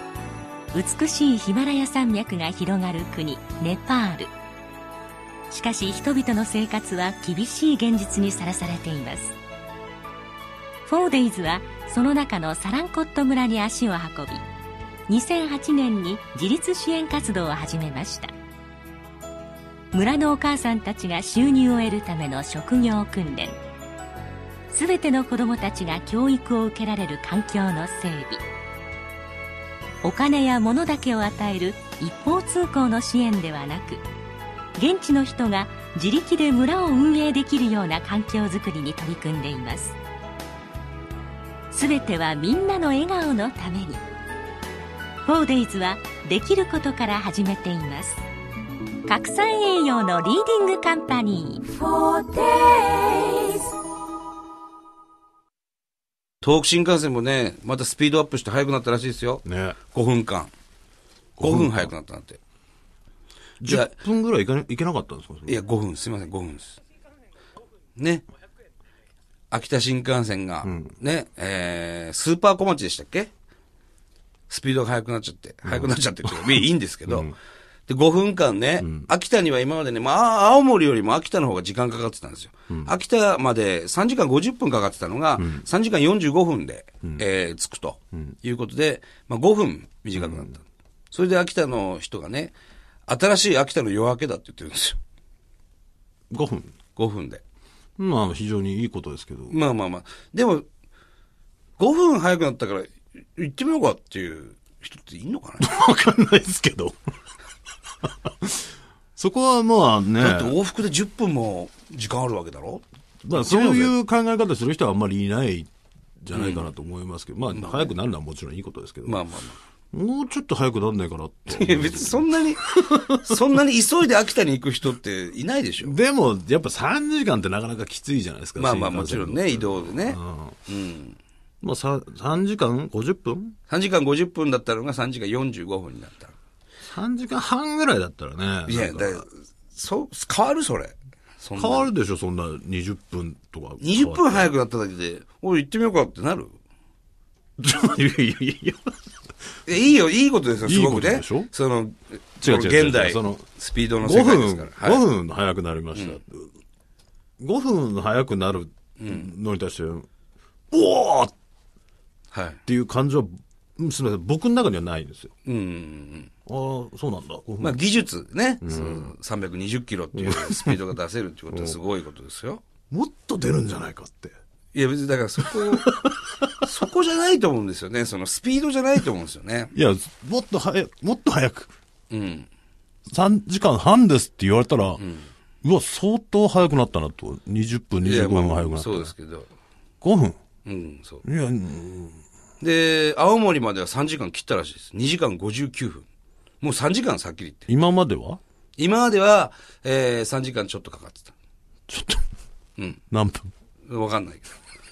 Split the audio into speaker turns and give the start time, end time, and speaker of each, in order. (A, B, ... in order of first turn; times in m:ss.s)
0:00.7-0:04.3 A
0:05.5-0:09.3 A
0:10.8-0:14.4 A
0:15.1-0:18.3 A
0:19.9-0:23.6 A
0:24.7-0:28.4 A
0:30.0-0:34.0 A
0:34.8-0:40.0 A
0:41.7-0:44.0 A
0:45.3-0:48.2 A
0:49.1-0:53.6 A
0:56.4-1:00.5 B
0:59.4-0:59.8 C
1:01.4-1:01.9 C
1:01.4-1:02.4 B
1:03.6-1:05.6 C
1:03.6-1:03.9 B
1:05.5-1:06.8 B
1:08.0-1:08.2 B
1:09.5-1:13.3 B
1:10.6-1:10.9 C
1:14.5-1:17.3 B
1:15.6-1:17.3 C
1:17.9-1:32.6 B
1:18.8-1:19.1 C
1:25.4-1:25.7 C
1:30.2-1:30.5 C
1:33.1-1:35.0 B
1:36.3-1:36.8 C
1:37.0-1:37.4 B
1:38.0-1:39.6 C
1:39.5-1:40.7 B
1:41.8-1:45.7 B
1:45.6-1:47.0 C
1:48.0-1:50.6 C
1:50.2-1:53.9 B
1:53.2-1:55.7 C
1:56.2-1:59.2 C
1:56.3-1:56.7 B
1:57.5-1:57.9 B
1:59.0-1:59.6 B
1:59.9-2:03.6 C
2:01.5-2:06.0 B
2:05.8-2:10.6 C
2:08.6-2:11.2 B
2:11.6-2:13.6 C
2:13.7-2:16.4 B
2:16.9-2:19.2 C
2:18.7-2:21.9 B
2:21.6-2:24.5 C
2:23.8-2:26.5 B
2:27.6-2:29.0 C
2:29.7-2:35.0 B
2:30.6-2:31.5 C
2:32.4-2:33.5 C
2:34.0-2:36.5 C
2:35.9-2:36.2 B
2:37.4-2:40.1 C
2:39.0-2:39.3 B
2:40.7-2:41.3 C
2:42.3-2:42.6 B
2:42.7-2:45.3 C
2:45.4-2:46.3 B
2:46.5-2:47.8 C
2:47.6-2:52.6 B
2:48.6-2:49.1 C
2:50.1-2:50.9 C
2:51.5-2:51.8 C
2:52.9-2:54.3 C
2:54.7-2:55.9 B
2:55.4-2:56.7 C
2:56.6-2:59.7 B
2:59.7-3:01.7 C
3:02.1-3:02.5 B
3:03.1-3:05.0 C
3:05.0-3:05.3 B
3:05.6-3:09.1 C
3:08.0-3:09.5 B
3:10.0-3:10.4 C
3:10.6-3:11.2 B
3:11.2-3:12.2 C
3:12.6-3:16.1 B
3:16.6-3:17.7 B
3:17.7-3:18.4 C
3:18.8-3:21.3 B
3:21.9-3:22.2 C
3:23.1-3:23.5 C
3:23.9-3:24.6 B